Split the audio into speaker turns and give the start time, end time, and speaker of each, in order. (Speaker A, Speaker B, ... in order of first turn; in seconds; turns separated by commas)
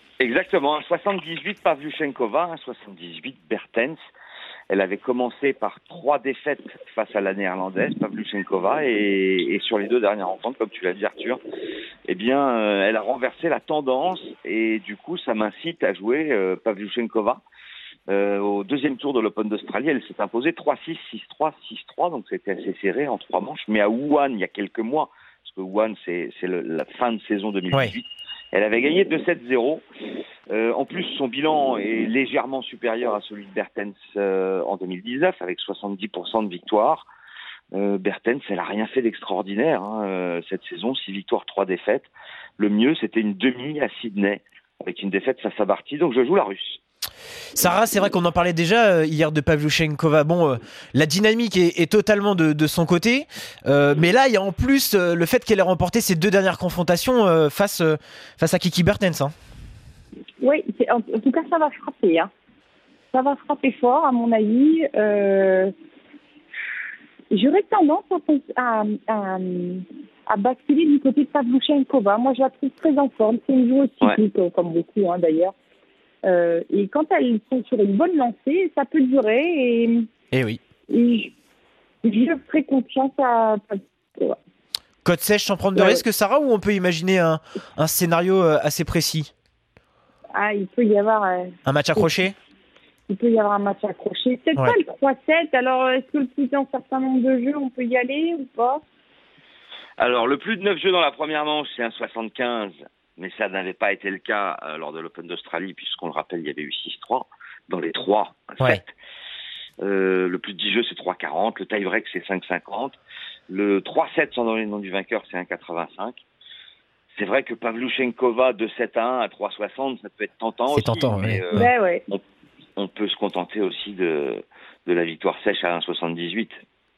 Speaker A: 0.2-4.0, Speaker A: 4.7-11.4, Speaker A: 12.1-17.4, Speaker A: 18.1-29.8, Speaker A: 30.5-37.1, Speaker A: 37.7-46.8, Speaker B: 47.5-59.3, Speaker C: 60.4-62.3, Speaker C: 63.1-65.7, Speaker C: 67.3-75.5, Speaker C: 76.2-80.0, Speaker B: 80.3-80.6, Speaker C: 80.9-81.3, Speaker C: 82.0-84.4, Speaker B: 85.0-89.3, Speaker C: 85.7-86.0, Speaker C: 90.3-92.2, Speaker B: 91.7-92.3, Speaker C: 93.1-98.8, Speaker A: 100.0-108.9, Speaker A: 109.8-113.0, Speaker A: 113.5-116.2, Speaker A: 117.1-122.2, Speaker B: 120.7-121.7, Speaker C: 121.5-122.0, Speaker A: 122.8-126.6